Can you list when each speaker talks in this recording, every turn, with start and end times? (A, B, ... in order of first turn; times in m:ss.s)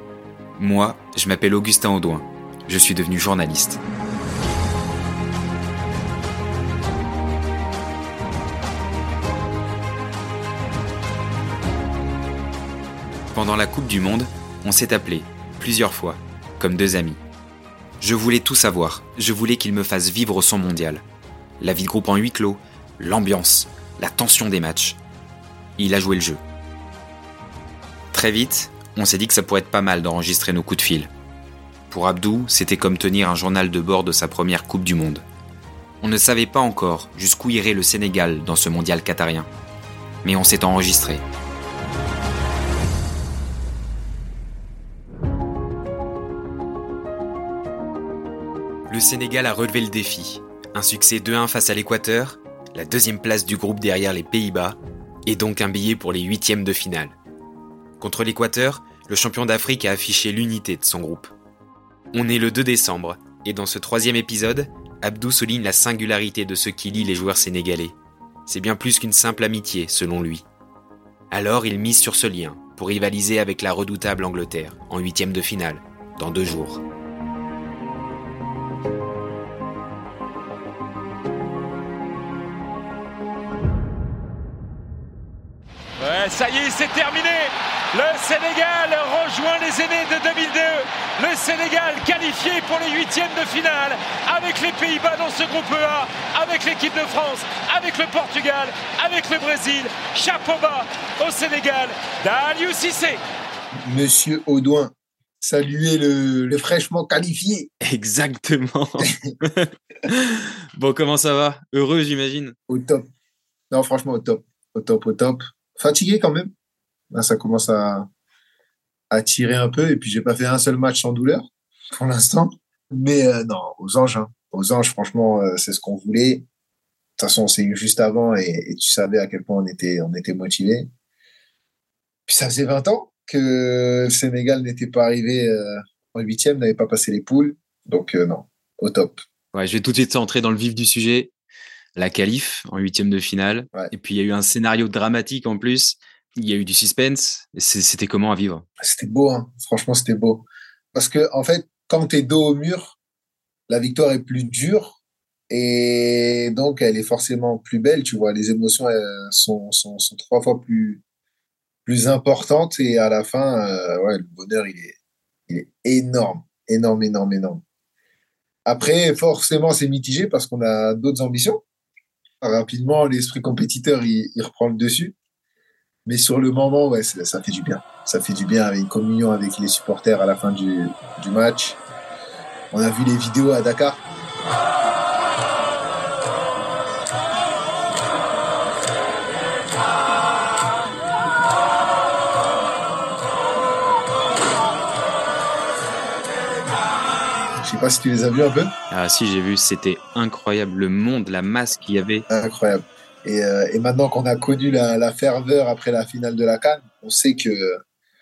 0:00.6-0:03.8 A
0:13.3-0:17.2 A
0:18.0-0:21.0 A
0:21.6-0:25.0 A
0:25.8-0:26.4 A
0:28.1-0:31.1 A
0:31.9-0:35.2 A
0:36.0-0:39.5 A
0:40.2-0:41.2 A
0:48.9-0:57.2 A
0:58.0-1:01.3 A
1:02.1-1:08.0 A
1:08.5-1:10.4 A
1:11.3-1:16.8 A
1:26.0-1:43.2 B
1:43.8-1:47.7 C
1:47.8-1:52.5 A
1:52.7-1:53.1 C
1:53.7-1:56.5 C
1:57.1-1:58.1 C
1:59.1-2:06.4 C
2:07.2-2:10.9 C
2:12.3-2:19.2 C
2:19.5-2:21.3 A
2:22.0-2:28.6 A
2:28.8-2:33.0 C
2:33.7-2:35.0 C
2:35.5-2:41.0 C
2:41.8-2:45.0 C
2:45.5-2:47.6 C
2:48.6-2:51.6 C
2:52.4-2:55.2 C
2:56.0-3:01.8 C
3:02.7-3:04.0 C
3:17.6-3:18.7 C
3:18.9-3:22.2 A
3:22.3-3:27.8 C